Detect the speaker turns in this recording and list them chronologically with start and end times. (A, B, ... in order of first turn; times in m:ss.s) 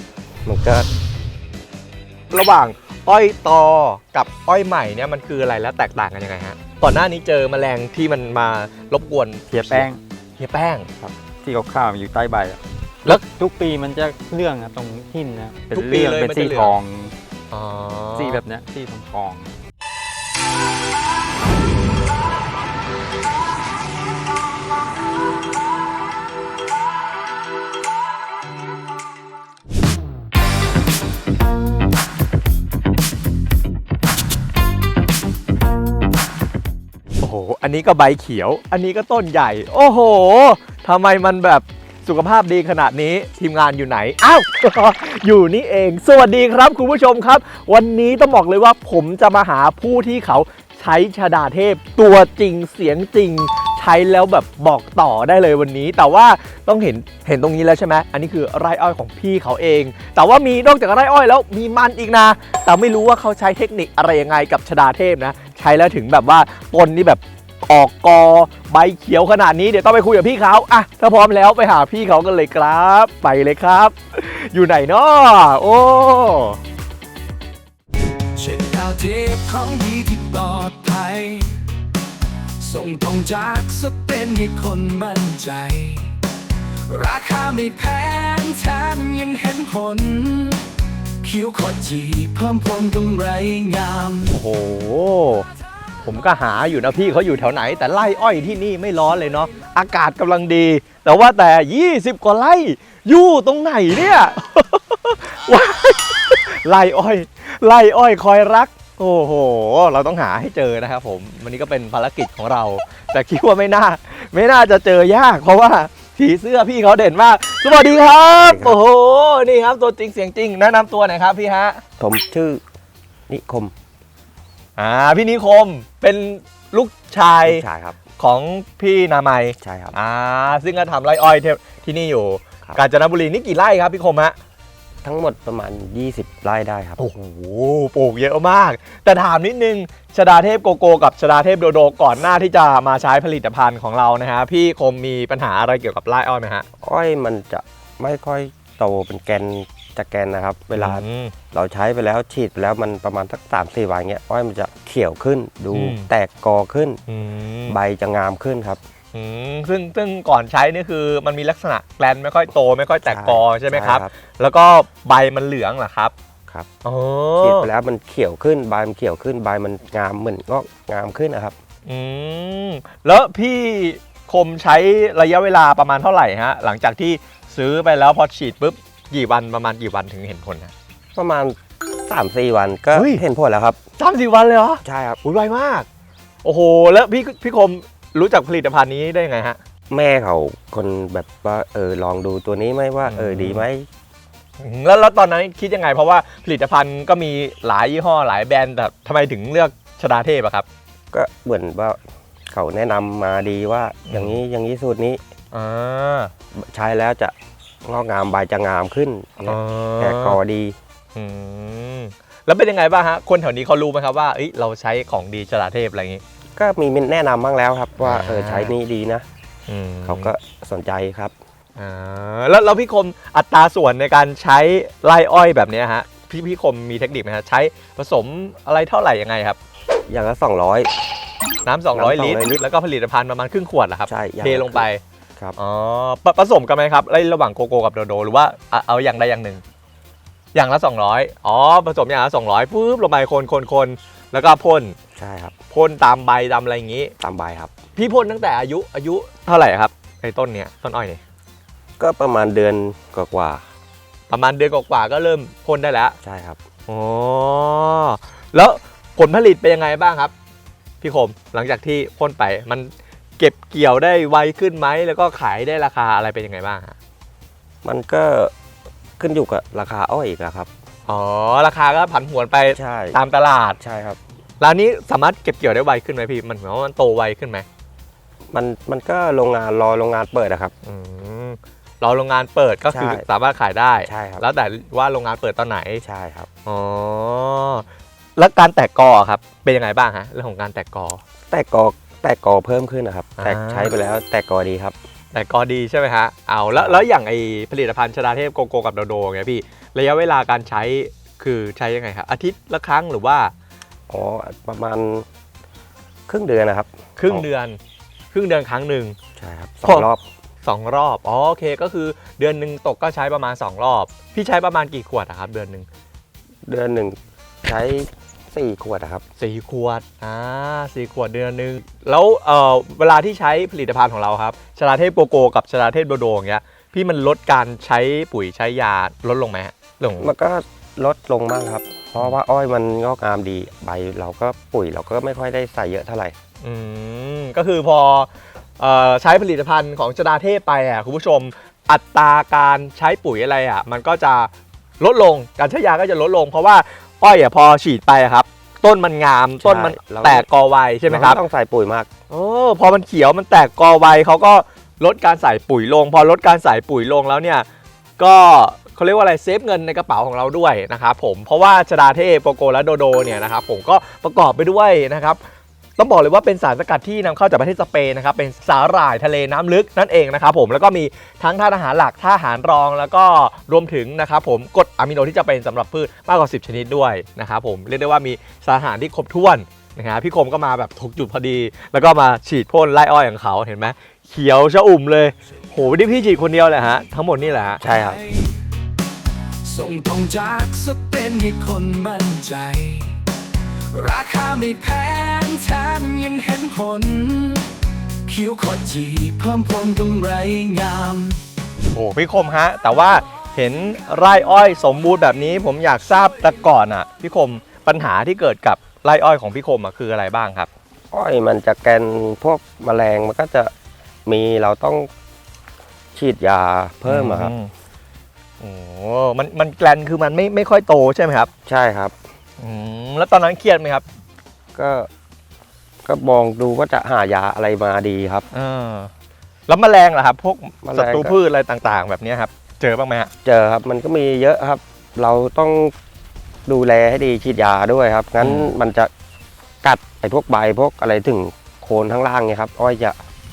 0:00.4-0:00.9 A
0:02.3-0:09.8 B
0:09.5-0:10.0 C
0:10.4-0:10.9 B
0:11.0-0:17.1 C
0:15.7-0:16.7 B
0:17.5-0:18.4 B
0:18.2-0:19.5 C
0:37.2-1:16.6 B
1:18.4-1:21.5 D
1:22.6-1:26.1 D
1:26.9-1:30.6 D
1:31.2-1:34.3 D
1:34.3-1:35.4 B
1:36.0-2:01.8 B
1:58.4-1:58.8 A
2:02.0-2:02.6 A
2:03.3-2:03.7 A
2:04.8-2:07.6 B
2:07.4-2:08.0 A
2:08.2-2:14.4 B
2:09.6-2:09.9 A
2:15.0-2:17.0 A
2:17.0-2:26.7 B
2:26.8-2:37.0 A
2:30.8-2:31.3 B
2:35.7-2:36.1 B
2:37.1-2:37.8 B
2:37.7-2:38.8 A
2:39.1-2:46.1 B
2:43.1-2:44.1 A
2:46.8-2:47.7 B
2:47.4-2:51.6 A
2:51.9-3:00.7 B
3:01.2-3:03.8 A
3:02.9-3:03.2 B
3:04.0-3:05.9 B
3:04.8-3:05.2 A
3:06.4-3:09.6 B
3:09.9-3:13.9 A
3:13.0-3:13.7 B
3:14.6-3:20.7 B
3:21.1-3:25.2 A
3:24.1-3:24.4 B
3:25.5-3:26.3 B
3:26.5-3:30.8 A
3:29.4-3:30.4 B
3:31.2-3:36.2 B
3:36.6-3:39.3 A
3:38.0-3:38.7 B
3:39.7-3:40.3 B
3:40.0-3:41.3 A
3:41.8-3:49.6 B
3:50.1-3:50.9 A
3:51.6-3:55.0 B
3:51.9-3:52.6 A
3:54.1-3:54.9 A
3:55.6-3:59.6 B
4:00.5-4:05.0 B
4:05.2-4:05.6 A
4:05.7-4:07.1 B
4:07.2-4:07.7 A
4:08.0-4:11.2 B
4:12.0-4:13.6 A
4:14.3-4:16.2 B
4:16.2-4:16.6 A
4:16.9-4:20.3 B
4:21.0-4:27.0 B
4:27.8-4:28.5 A
4:29.2-4:30.7 A
4:31.1-4:33.8 B
4:32.8-4:33.2 A
4:33.8-4:34.2 A
4:34.6-4:37.7 B
4:38.5-4:40.7 A
4:40.8-4:46.0 B
4:42.9-4:43.2 A
4:44.0-4:44.4 A
4:46.0-4:46.5 A
4:46.7-4:47.9 B
4:48.4-4:51.2 B
4:51.5-4:55.0 A
4:53.4-4:53.9 B
4:55.3-5:03.5 B
4:56.8-4:57.0 A
5:04.1-5:05.3 A
5:06.3-5:07.4 A
5:07.2-5:07.8 B
5:08.3-5:09.2 B
5:09.4-5:10.2 A
5:10.6-5:15.9 B
5:16.7-5:19.2 A
5:19.4-5:30.3 B
5:30.2-5:36.4 A
5:36.6-5:51.4 B
5:49.6-5:50.5 A
5:51.1-5:52.1 A
5:52.3-5:57.7 B
5:58.2-6:05.4 B
6:06.0-6:27.8 B
6:27.8-6:28.2 A
6:27.8-6:28.4 D
6:29.6-6:33.2 D
6:33.9-6:37.6 D
6:38.3-6:41.4 D
6:41.9-6:50.7 B
6:51.1-6:53.7 A
6:54.3-6:55.1 A
6:56.1-6:57.5 A
6:57.1-6:57.7 B
6:58.6-7:01.5 B
7:01.6-7:02.2 A
7:02.6-7:04.0 B
7:04.8-7:05.1 A
7:06.0-7:08.5 A
7:08.5-7:09.1 B
7:09.7-7:13.3 B
7:10.8-7:11.4 A
7:13.4-7:15.9 A
7:16.7-7:19.1 A
7:18.4-7:18.7 B
7:19.8-7:23.2 A